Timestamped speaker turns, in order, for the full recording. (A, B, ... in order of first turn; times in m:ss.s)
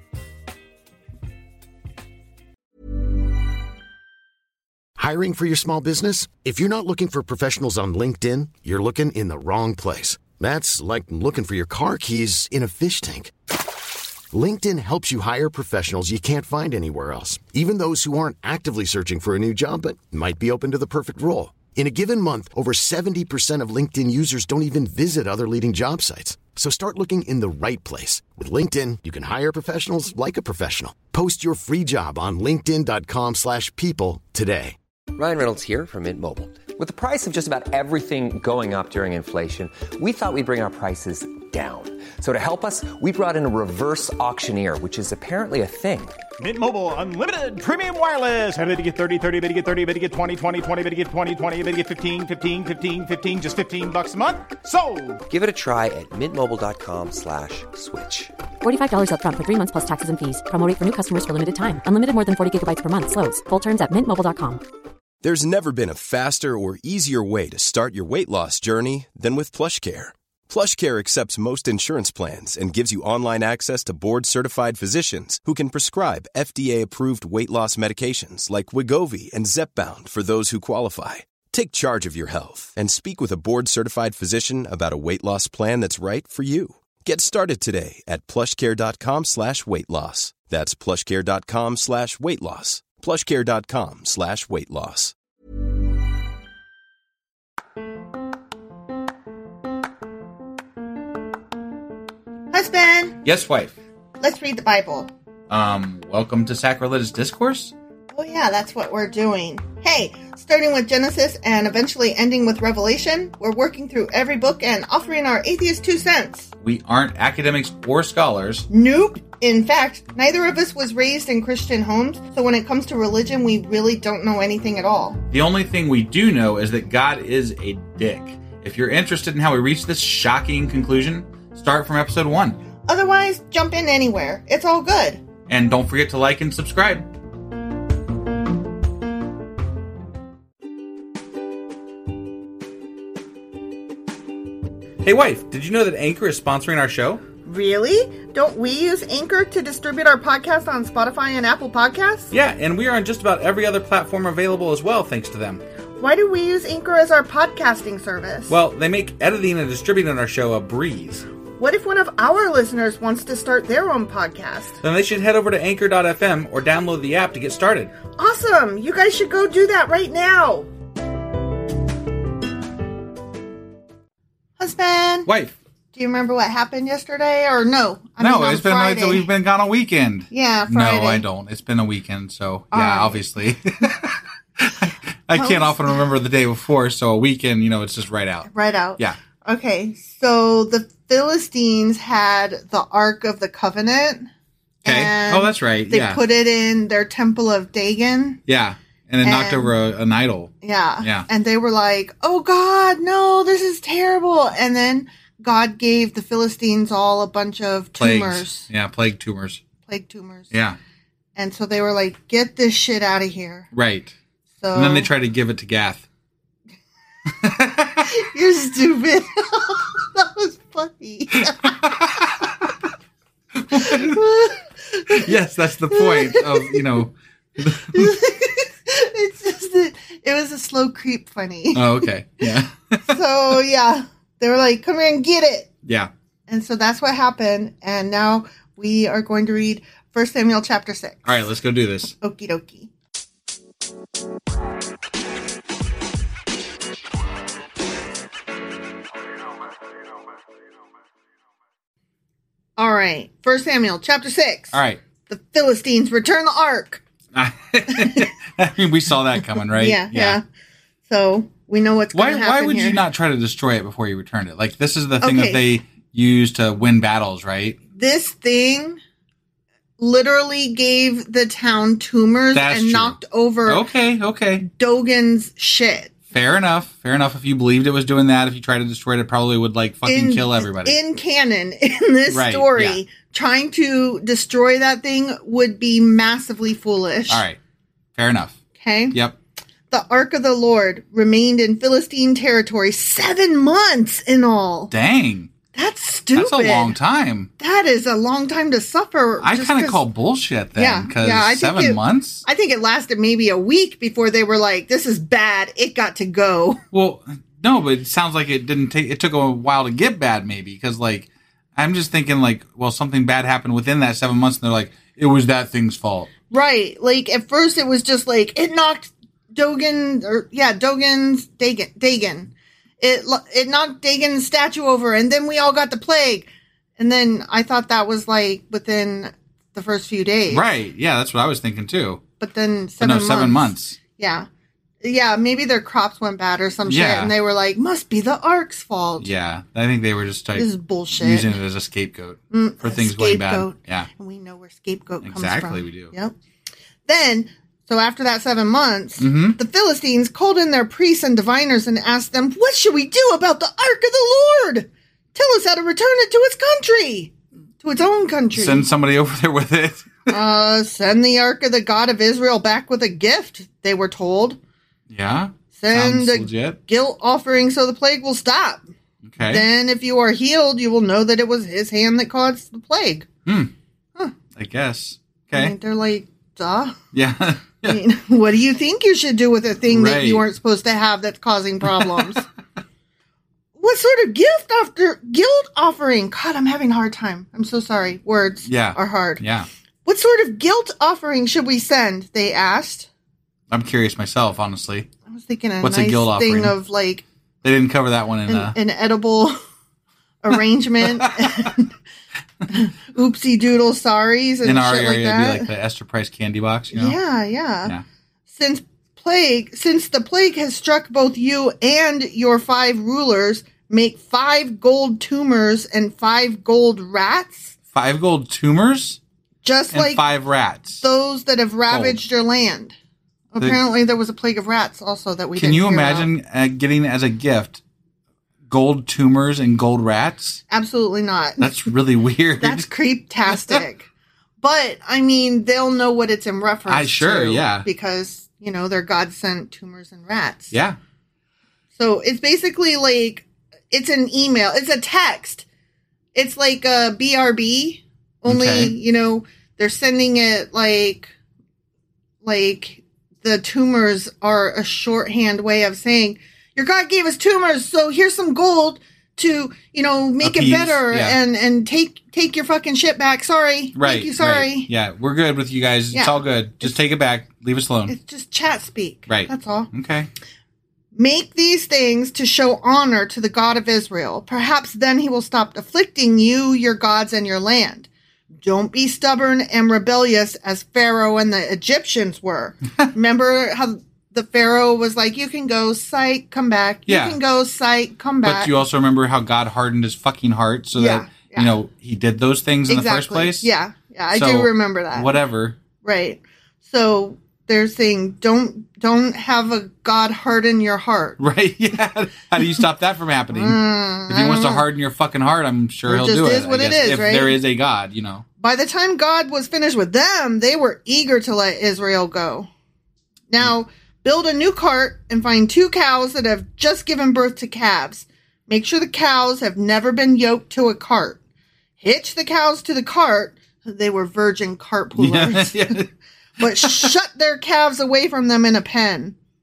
0:05.0-0:13.3 A
0:14.3-0:34.8 A
0:35.2-0:46.2 B
0:46.4-0:55.2 C
0:55.3-0:58.3 B
0:58.6-1:04.6 D
1:05.2-1:35.1 E
1:42.5-1:43.2 F
1:43.2-1:43.8 G
1:44.2-1:45.1 F
1:45.5-1:47.7 G
1:48.1-1:56.5 F
1:56.6-1:58.7 G
1:58.7-2:05.2 F
2:05.3-2:12.6 G
2:12.9-2:15.2 F
2:15.5-2:17.1 G
2:25.0-2:27.2 G
2:27.4-2:32.3 F
2:32.3-2:35.6 G
2:36.0-2:38.6 F
2:38.5-2:41.3 G
2:41.6-2:44.8 F
2:44.8-2:47.9 G
2:48.2-2:50.7 F
2:54.6-2:55.3 F
2:55.3-2:55.6 G
2:55.9-2:59.3 F
2:58.2-3:09.2 G
3:00.3-3:01.2 F
3:02.7-3:03.2 F
3:05.3-3:06.0 F
3:08.5-3:14.3 F
3:14.8-3:18.4 F
3:14.8-3:16.2 G
3:18.5-3:21.3 G
3:19.2-3:19.7 F
3:20.6-3:28.7 F
3:28.0-3:29.6 G
3:29.9-3:30.5 F
3:30.5-3:30.8 G
3:31.4-3:33.7 F
3:33.7-3:34.2 G
3:34.6-3:35.1 F
3:34.7-3:36.0 G
3:37.4-3:38.1 G
3:38.0-3:41.8 F
3:41.6-3:42.6 G
3:43.6-3:44.5 G
3:43.7-3:45.3 F
3:45.1-3:48.3 G
3:45.9-3:46.8 F
3:47.9-3:52.4 F
3:51.7-3:53.1 G
3:53.0-3:55.7 F
3:56.5-4:01.2 F
4:01.2-4:02.1 G
4:02.2-4:02.9 F
4:12.8-4:14.8 F
4:14.7-4:15.0 G
4:15.3-4:17.0 F
4:17.3-4:20.4 G
4:17.9-4:18.3 F
4:19.7-4:20.4 F
4:21.1-4:23.0 F
4:22.1-4:27.8 G
4:25.2-4:25.6 F
4:28.0-4:29.0 F
4:30.0-4:33.9 F
4:32.5-4:34.7 G
4:34.6-4:36.1 F
4:36.3-4:41.0 G
4:40.0-4:47.4 F
4:42.3-4:43.0 G
4:47.3-4:47.6 G
4:48.2-4:48.6 G
4:48.8-4:49.2 F
4:49.9-4:54.9 F
4:54.9-4:55.5 G
4:55.7-4:57.0 F
4:56.4-4:57.5 G
4:57.6-5:00.0 F
4:59.4-5:02.4 G
5:00.8-5:06.8 F
5:06.9-5:16.3 G
5:16.5-5:30.6 F
5:30.5-5:32.2 G
5:32.4-5:34.5 F
5:33.0-5:34.0 G
5:35.0-5:39.3 F
5:36.9-5:37.3 G
5:39.2-5:44.1 G
5:40.6-5:41.6 F
5:42.5-5:46.4 F
5:45.2-5:46.1 G
5:47.1-5:58.9 F
5:49.2-5:49.6 G
5:58.5-6:00.4 G
6:00.3-6:04.6 F
6:05.1-6:06.8 G
6:05.8-6:08.8 F
6:09.2-6:09.7 G
6:09.5-6:13.3 F
6:13.5-6:13.7 G
6:14.6-6:15.7 G
6:15.5-6:17.0 F
6:17.1-6:18.0 G
6:17.8-6:22.4 F
6:19.9-6:20.5 G
6:21.8-6:22.4 G
6:23.8-6:29.4 F
6:28.6-6:29.7 G
6:30.0-6:33.1 F
6:33.7-6:35.1 G
6:35.3-6:37.2 F
6:35.8-6:36.8 G
6:37.6-6:38.8 G
6:38.5-6:39.6 F
6:40.4-6:41.9 F
6:41.0-6:41.7 G
6:42.7-6:45.7 F
6:44.6-6:47.2 G
6:46.9-6:47.9 F
6:48.5-6:57.8 F
6:57.9-6:59.2 G
6:59.6-7:00.2 F
6:59.9-7:01.0 G
7:01.0-7:03.0 F
7:01.9-7:02.2 G
7:03.5-7:06.3 F
7:05.6-7:07.8 G
7:08.7-7:10.6 G
7:10.7-7:11.7 F
7:11.6-7:12.9 G
7:12.6-7:14.1 F
7:13.5-7:13.8 G
7:14.6-7:20.8 F
7:16.9-7:17.9 G
7:20.7-7:21.0 G
7:22.0-7:25.6 F
7:26.4-7:31.3 F
7:28.5-7:29.0 G
7:32.4-7:44.9 F
7:40.4-7:41.4 G
7:44.0-7:48.1 G
7:46.1-7:47.0 F
7:48.1-7:49.9 F
7:49.3-7:50.3 G
7:51.2-7:58.1 F
7:58.6-8:08.7 F
8:07.1-8:07.4 G
8:08.4-8:13.7 G
8:11.0-8:11.7 F
8:12.9-8:15.4 F
8:14.3-8:15.8 G
8:16.0-8:21.4 F
8:21.4-8:28.4 G
8:23.5-8:24.9 F
8:26.1-8:27.6 F
8:28.6-8:32.7 F
8:33.5-8:41.4 F
8:42.0-8:46.0 F
8:45.2-8:46.1 G
8:46.6-8:49.4 F
8:46.8-8:47.1 G